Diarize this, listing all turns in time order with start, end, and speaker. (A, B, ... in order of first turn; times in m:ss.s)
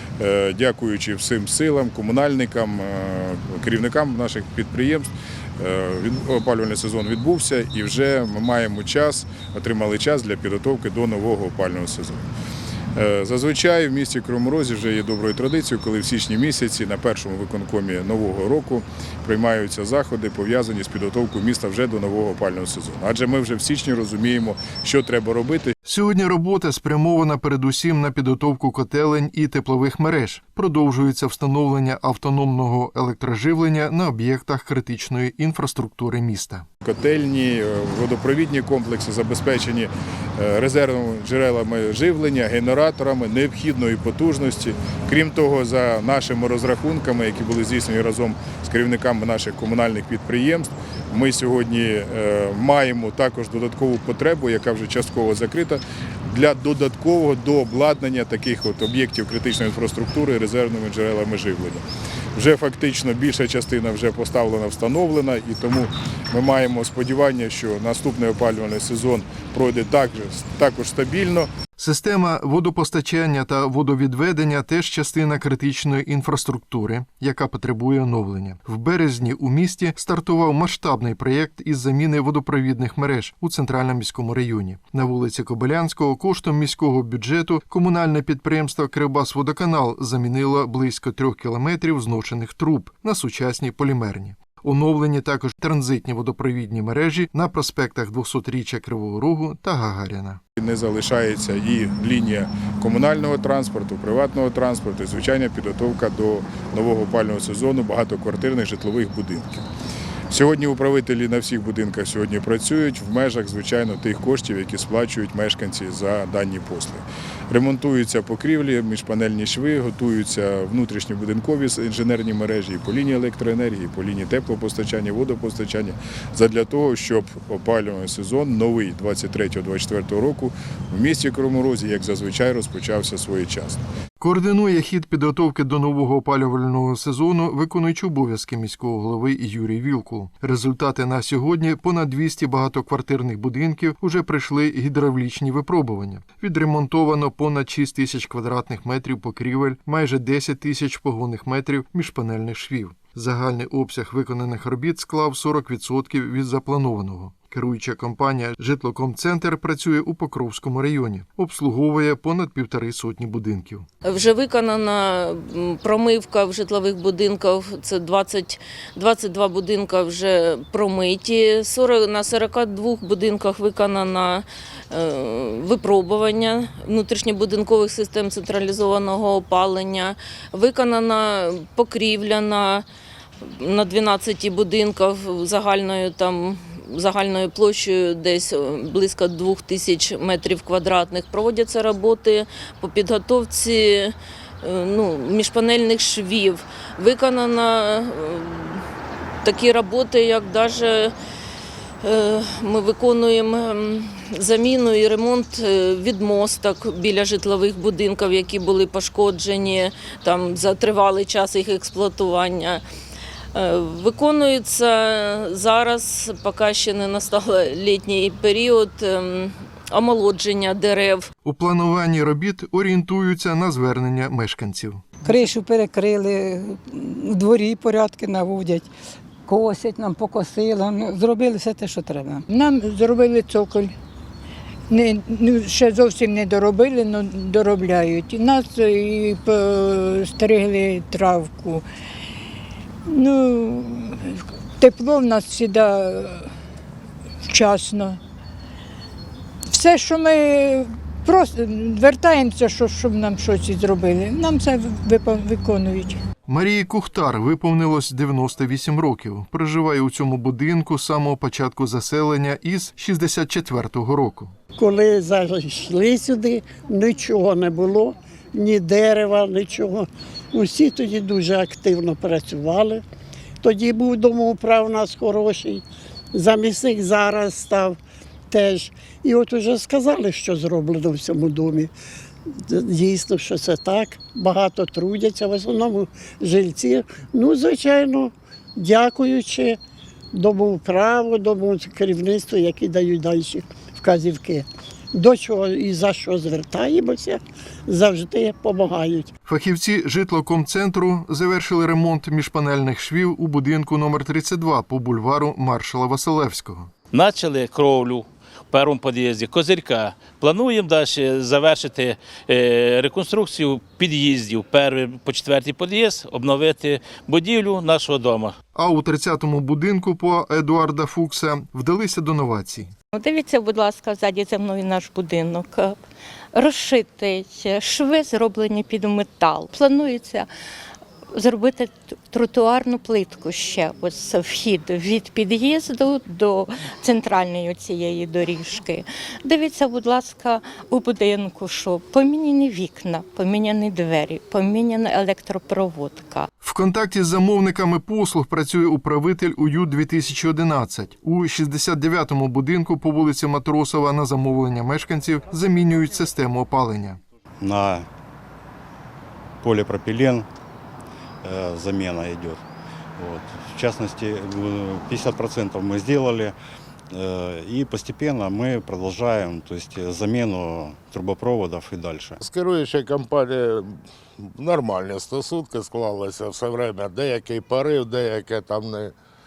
0:00.2-0:12.3 A
0:13.0-0:25.7 A
0:25.8-0:36.6 B
0:36.8-1:01.8 A
1:02.3-1:11.5 A
1:11.8-1:40.4 B
1:40.6-1:49.6 A
1:50.3-2:13.8 A
2:14.2-2:43.8 B
2:44.0-3:02.8 C
3:03.4-3:18.8 C
3:19.4-3:21.1 C
3:22.0-3:32.8 C
3:33.5-3:41.3 C
3:41.4-3:45.0 B
3:45.2-3:48.9 D
3:49.4-3:52.4 D
3:52.5-3:53.9 E
3:54.9-4:01.8 E
4:03.1-4:06.5 E
4:07.5-4:08.2 E
4:09.7-4:16.2 E
4:16.5-4:24.5 B
4:24.8-4:33.0 F
4:33.6-4:38.0 F
4:38.5-4:41.9 F
4:42.6-4:49.8 F
4:50.3-4:59.3 F
4:59.4-5:06.9 B
5:07.1-5:18.6 G
5:18.7-5:22.9 B
5:23.1-5:26.0 H
5:26.5-5:30.5 H
5:31.3-5:46.5 H
5:46.6-5:57.2 B
5:57.6-5:58.1 I
5:59.6-6:00.5 I
6:01.4-6:02.6 I
6:03.2-6:06.6 I
6:07.1-6:12.4 I
6:12.4-6:19.1 J